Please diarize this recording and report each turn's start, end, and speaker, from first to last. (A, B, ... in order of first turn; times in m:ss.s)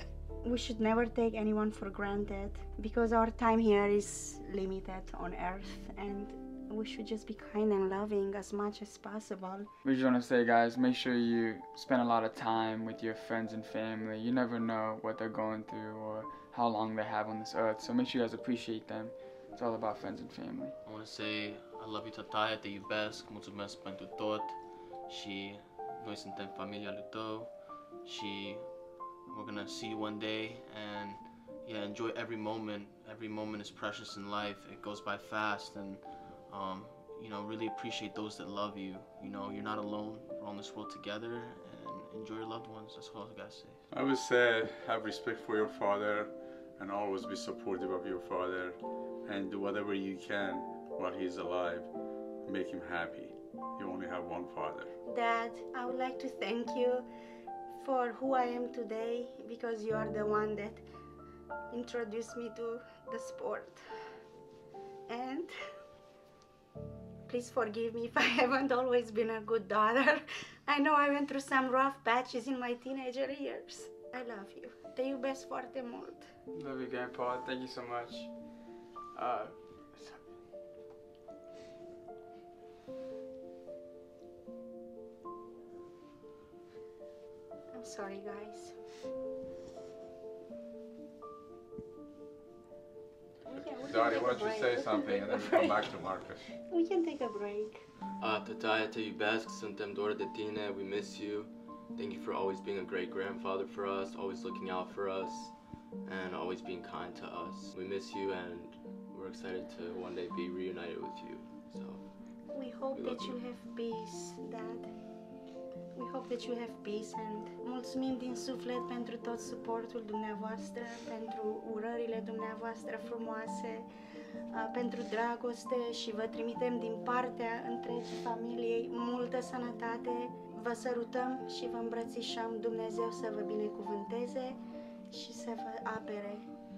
0:00.4-0:09.7 A
0:09.8-0:20.7 B
0:20.8-0:43.8 C
0:43.9-0:54.9 D
0:55.0-0:57.0 A
0:57.8-1:00.8 A
1:01.7-1:03.8 A
1:05.1-1:05.5 A
1:07.2-1:16.3 A
1:16.6-1:20.3 B
1:27.7-1:28.8 A
1:33.4-1:36.0 A
1:33.6-1:36.4 D
1:36.5-1:37.9 A
1:38.2-1:52.1 E
1:52.5-1:54.9 A
1:52.9-1:53.4 E
1:56.0-2:03.9 A
2:04.5-2:14.6 A
2:15.1-2:16.4 A